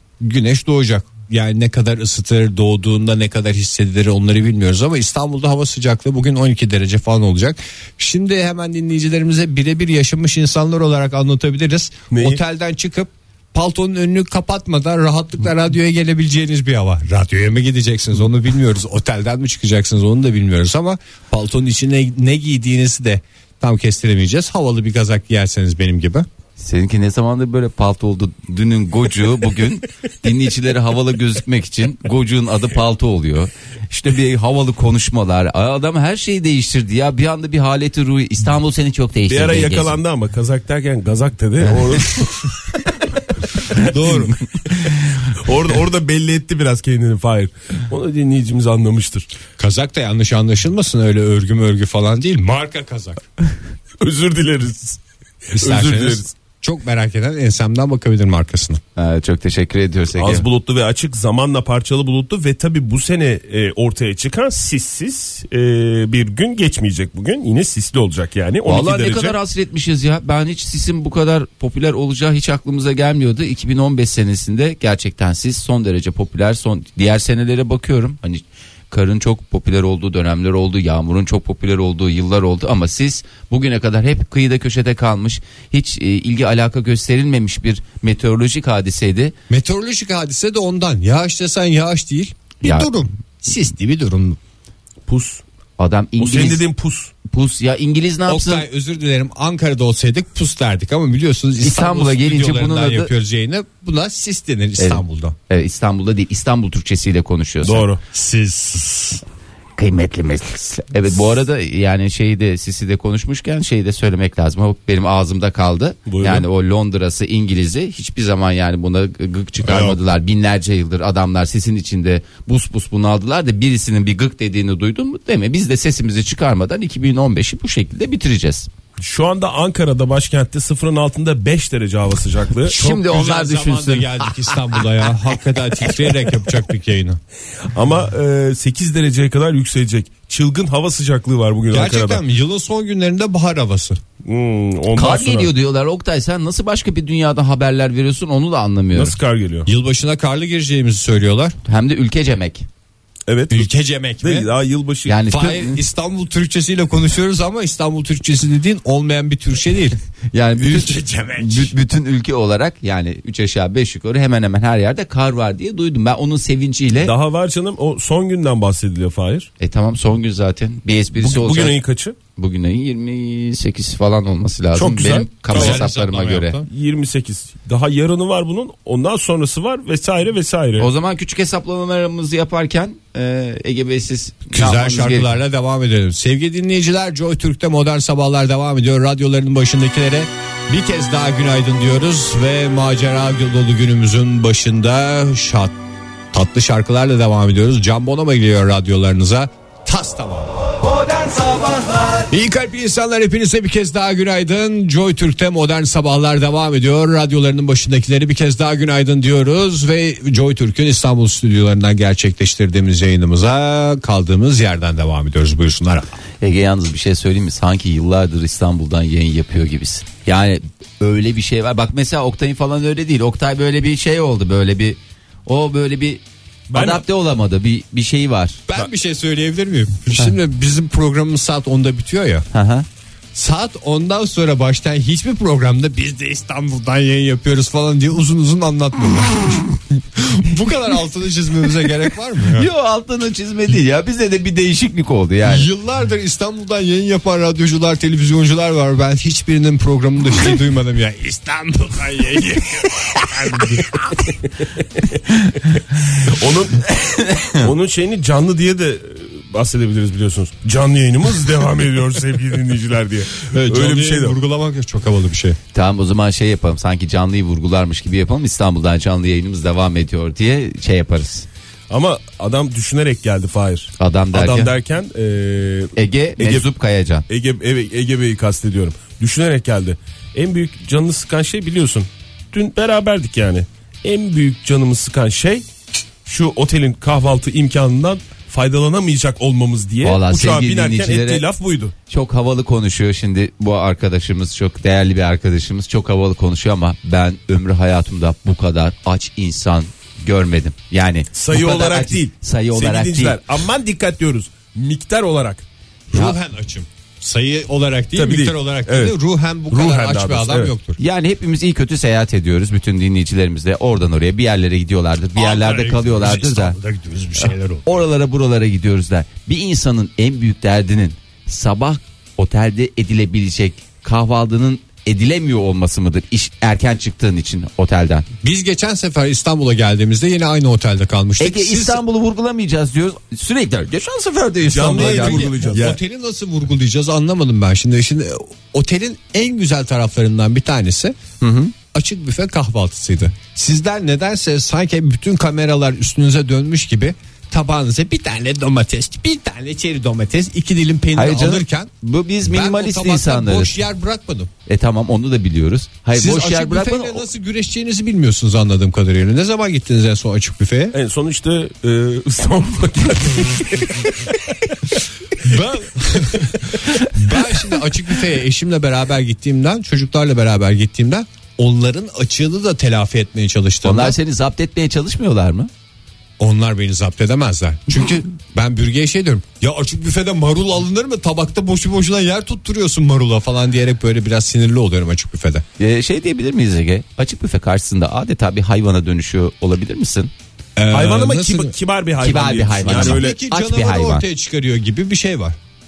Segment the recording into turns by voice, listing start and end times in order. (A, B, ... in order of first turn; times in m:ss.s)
0:00.2-0:26.3 A
0:12.1-0:12.4 B
0:26.6-0:40.0 C
0:39.3-0:42.6 B
0:41.8-0:42.1 C
0:43.8-0:44.4 A
0:45.3-0:49.3 B
0:49.6-0:53.3 A
0:54.0-0:55.0 B
0:55.5-0:56.3 B
0:55.6-0:58.8 A
0:59.0-1:00.4 C
1:00.2-1:09.4 B
1:08.6-1:29.3 C
1:29.5-1:34.4 A
1:32.6-1:32.9 C
1:35.1-1:35.4 B
1:35.8-1:36.6 C
1:36.2-1:37.1 B
1:37.2-1:38.6 C
1:38.3-1:45.3 A
1:41.6-1:43.1 C
1:44.8-1:47.9 C
1:47.6-1:48.0 B
1:48.1-1:49.2 A
1:49.8-2:08.7 C
1:56.1-1:56.4 B
1:59.6-2:00.0 B
2:09.0-2:12.8 B
2:12.6-2:14.8 C
2:12.7-2:17.2 A
2:17.7-2:22.2 B
2:21.7-2:24.0 A
2:24.2-2:25.5 B
2:24.9-2:29.2 C
2:28.9-2:29.7 B
2:29.6-2:31.6 A
2:31.6-2:32.6 C
2:33.3-2:33.7 B
2:33.5-2:34.5 A
2:34.2-2:35.2 B
2:35.0-2:35.8 C
2:35.3-2:40.0 A
2:40.3-2:47.1 C
2:40.6-2:41.7 A
2:47.0-2:49.5 B
2:49.6-2:51.7 C
2:51.2-2:52.1 B
2:52.4-2:56.6 C
2:54.7-2:55.8 B
2:55.5-2:56.6 A
2:56.6-3:00.9 B
3:00.8-3:05.3 C
3:04.5-3:15.8 A
3:16.3-3:20.5 A
3:22.3-3:36.1 A
3:36.4-3:48.6 C
3:46.7-3:47.0 B
3:48.7-3:52.4 A
3:52.5-3:52.8 C
3:53.3-4:02.7 A
4:02.5-4:05.7 C
4:05.4-4:14.2 A
4:15.5-4:24.4 B
4:17.0-4:17.7 C
4:23.5-4:25.6 A
4:25.7-4:31.4 C
4:31.9-4:36.6 B
4:34.0-4:34.7 C
4:36.0-4:37.2 C
4:37.3-4:45.6 B
4:46.2-4:51.9 B
4:50.0-4:51.4 C
4:52.1-5:03.4 C
5:01.3-5:05.6 B
5:06.1-5:11.0 A
5:08.1-5:09.1 B
5:09.7-5:10.7 B
5:11.0-5:16.8 C
5:15.4-5:17.8 A
5:17.4-5:28.3 C
5:28.4-5:32.0 A
5:31.4-5:36.0 C
5:34.7-5:36.0 B
5:34.7-5:41.2 A
5:41.4-5:41.7 C
5:41.9-5:51.9 A
5:51.1-5:53.7 C
5:52.4-5:54.5 A
5:54.6-5:57.2 C
5:56.1-6:00.9 A
6:00.9-6:04.9 B
6:05.4-6:14.2 A
6:13.8-6:15.7 C
6:16.4-6:25.6 A
6:25.8-6:30.3 C
6:30.8-6:31.7 A
6:30.9-6:33.4 B
6:32.2-6:34.2 C
6:32.8-6:35.6 A